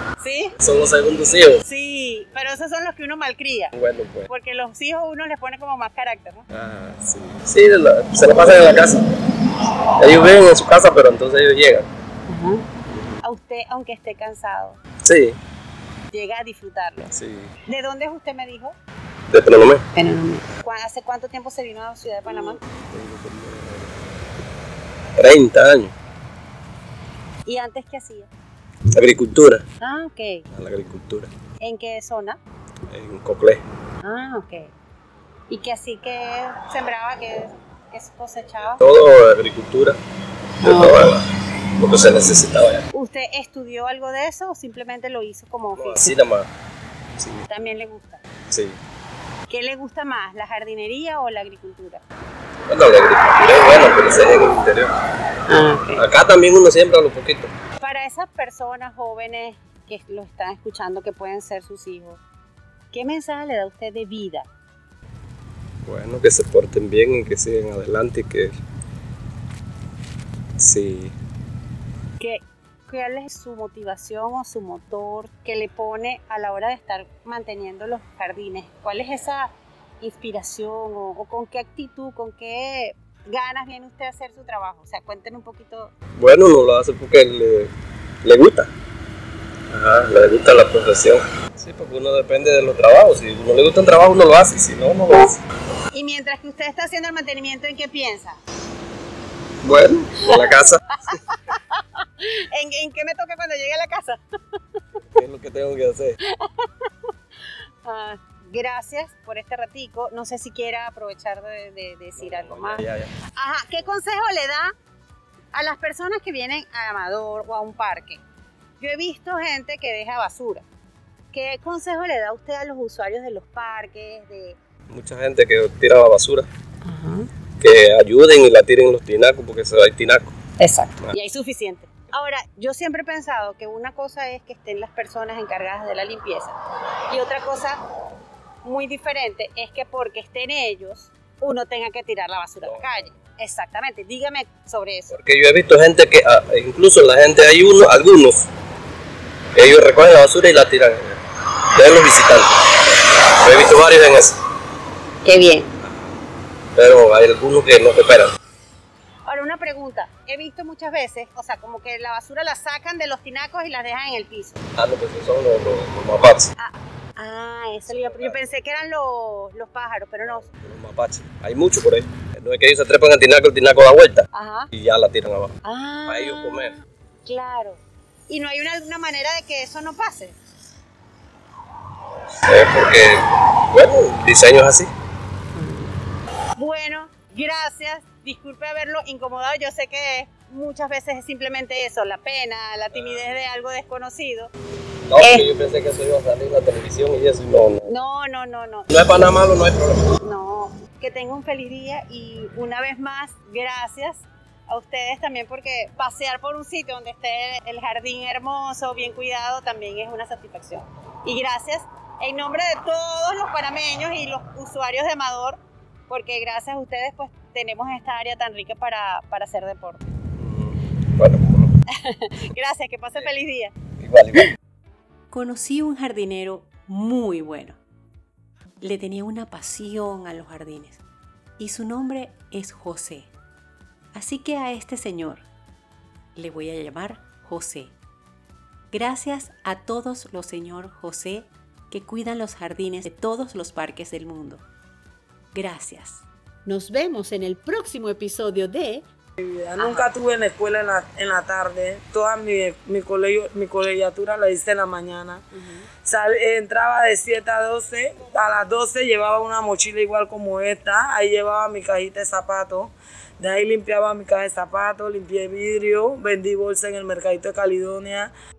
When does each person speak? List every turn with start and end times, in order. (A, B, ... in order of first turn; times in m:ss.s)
0:00.2-0:00.6 A
0:00.6-0:01.6 B
0:01.6-0:03.7 A
0:03.7-0:04.3 B
0:04.3-0:06.4 A
0:06.5-0:09.0 B
0:10.0-0:11.9 B
0:12.3-0:12.6 A
0:12.9-0:13.2 B
0:13.2-0:14.8 A
0:15.0-0:15.4 B
0:16.1-0:17.1 A
0:17.1-0:17.5 B
0:17.7-0:18.8 A
0:19.3-0:19.8 B
0:20.0-0:22.6 A
0:22.3-0:24.1 B
0:25.2-0:25.9 B
0:27.5-0:28.3 A
0:28.9-0:29.6 B
0:29.8-0:30.5 A
0:30.5-0:31.3 B
0:31.6-0:32.4 A
0:32.9-0:33.6 B
0:34.0-0:34.7 A
0:35.5-0:38.8 A
0:38.7-0:40.0 B
0:40.6-0:41.2 B
0:40.6-0:41.0 A
0:41.8-0:42.8 B
0:42.9-0:46.2 A
0:45.8-0:46.5 B
0:47.2-0:47.5 B
0:47.5-0:48.2 A
0:48.5-0:48.8 B
0:49.5-0:52.0 A
0:52.7-0:55.0 B
0:55.5-0:56.0 A
0:56.0-0:57.5 B
0:57.8-1:02.2 A
1:02.9-1:04.5 A
1:05.8-1:08.6 B
1:10.6-1:11.2 B
1:12.2-1:25.9 A
1:26.2-1:27.7 B
1:28.2-1:28.7 B
1:29.7-1:35.4 B
1:35.9-1:38.4 A
1:39.6-1:40.8 B
1:40.3-1:44.2 A
1:45.1-1:46.2 B
1:46.3-1:46.7 A
1:47.8-1:54.7 A
1:52.2-1:53.1 B
1:55.5-1:58.2 A
1:58.8-2:00.6 A
2:01.3-2:04.6 A
2:04.9-2:06.5 B
2:06.8-2:07.3 C
2:07.6-2:10.4 B
2:10.6-2:16.6 A
2:17.1-2:17.8 A
2:18.6-2:25.2 A
2:22.6-2:23.2 B
2:25.1-2:28.5 B
2:29.6-2:31.2 B
2:31.8-2:32.8 B
2:33.4-2:34.4 B
2:35.2-2:35.7 A
2:35.8-2:36.2 B
2:36.8-2:38.3 B
2:39.3-2:44.6 A
2:44.8-2:46.5 B
2:46.6-2:50.5 A
2:47.9-2:48.4 B
2:50.2-2:56.7 B
2:54.3-2:54.7 A
2:55.6-3:00.4 A
3:02.5-3:04.9 B
3:06.6-3:14.5 A
3:12.9-3:13.2 B
3:15.1-3:17.9 B
3:15.2-3:15.5 A
3:17.9-3:18.9 A
3:18.9-3:20.1 B
3:20.2-3:40.1 A
3:40.4-3:41.7 B
3:41.9-3:43.7 A
3:44.0-3:44.6 B
3:45.3-3:47.8 D
3:48.8-3:51.0 D
3:51.6-3:53.3 D
3:54.1-3:55.5 D
3:56.4-3:58.0 D
3:58.9-4:04.6 D
4:05.5-4:06.3 D
4:06.7-4:09.1 C
4:09.4-4:28.3 E
4:09.8-4:10.1 C